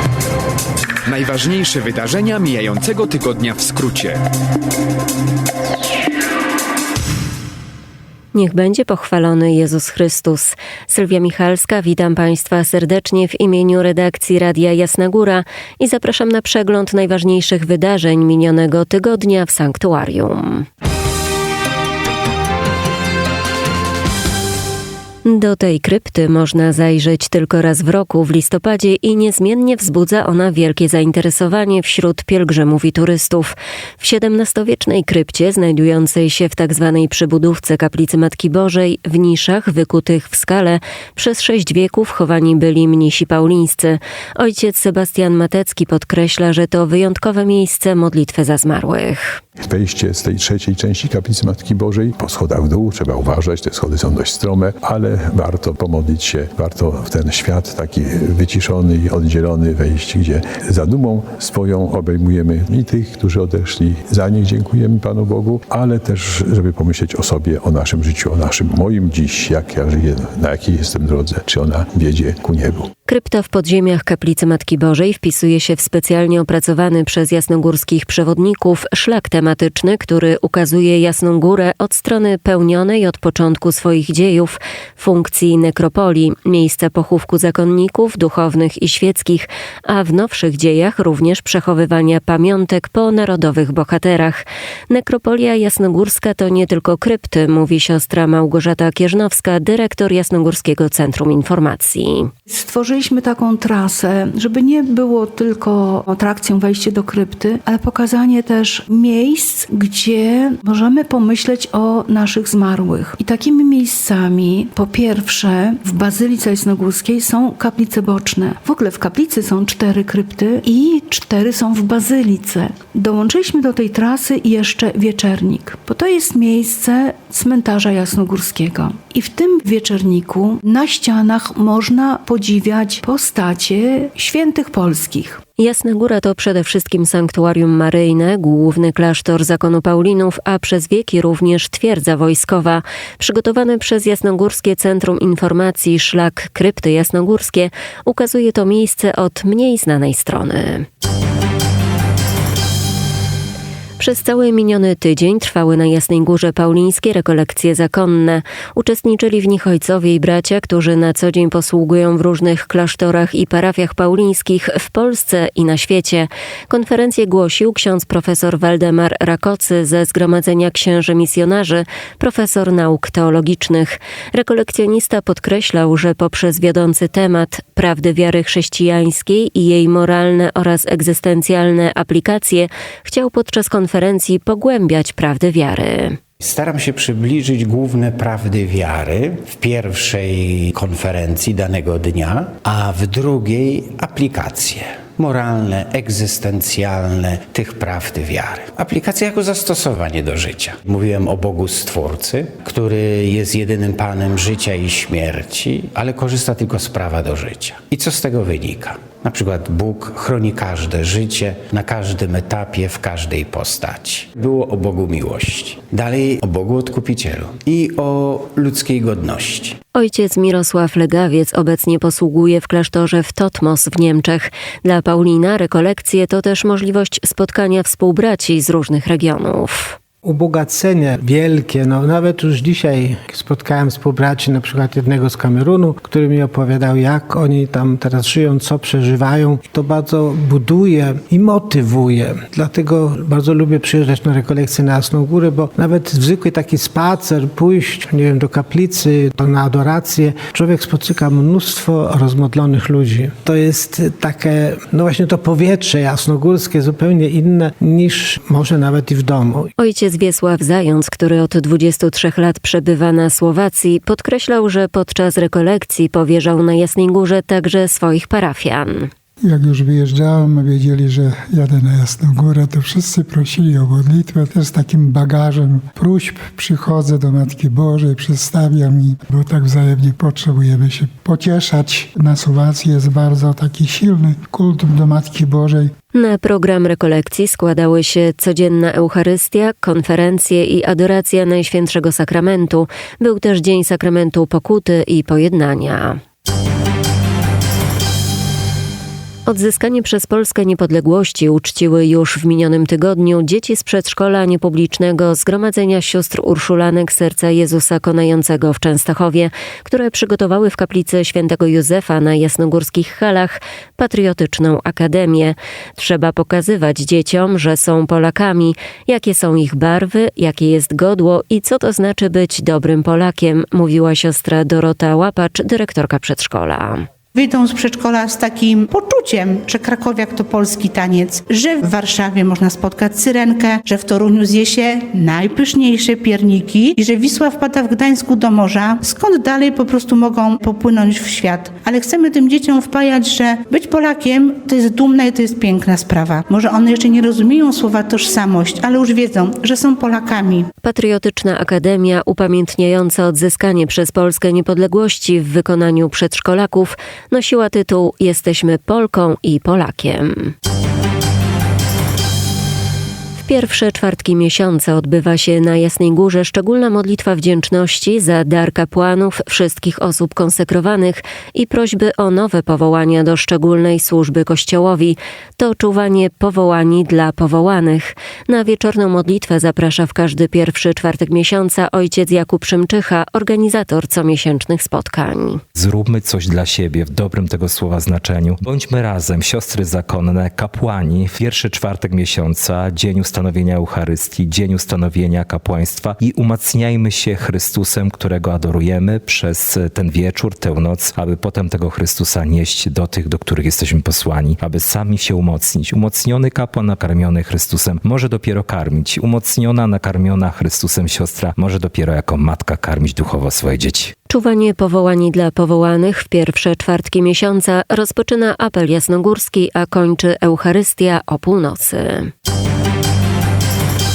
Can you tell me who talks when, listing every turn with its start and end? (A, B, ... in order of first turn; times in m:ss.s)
0:01.1-0:04.2 A
0:08.3-0:20.7 B
0:25.2-0:49.4 B
0:49.7-1:12.9 C
1:13.1-1:42.3 B
1:42.5-2:15.4 D
2:15.6-2:30.9 B
2:34.0-3:06.2 B
3:06.4-3:39.8 E
3:40.0-3:50.0 B
3:50.2-4:19.7 F
4:19.8-4:29.1 B
4:29.4-4:45.9 G
4:46.1-4:56.2 B
4:59.5-5:27.1 B
5:27.4-5:50.7 H
5:50.8-6:00.5 B
6:03.4-6:25.6 B
6:25.8-6:54.1 I
6:54.3-7:02.3 B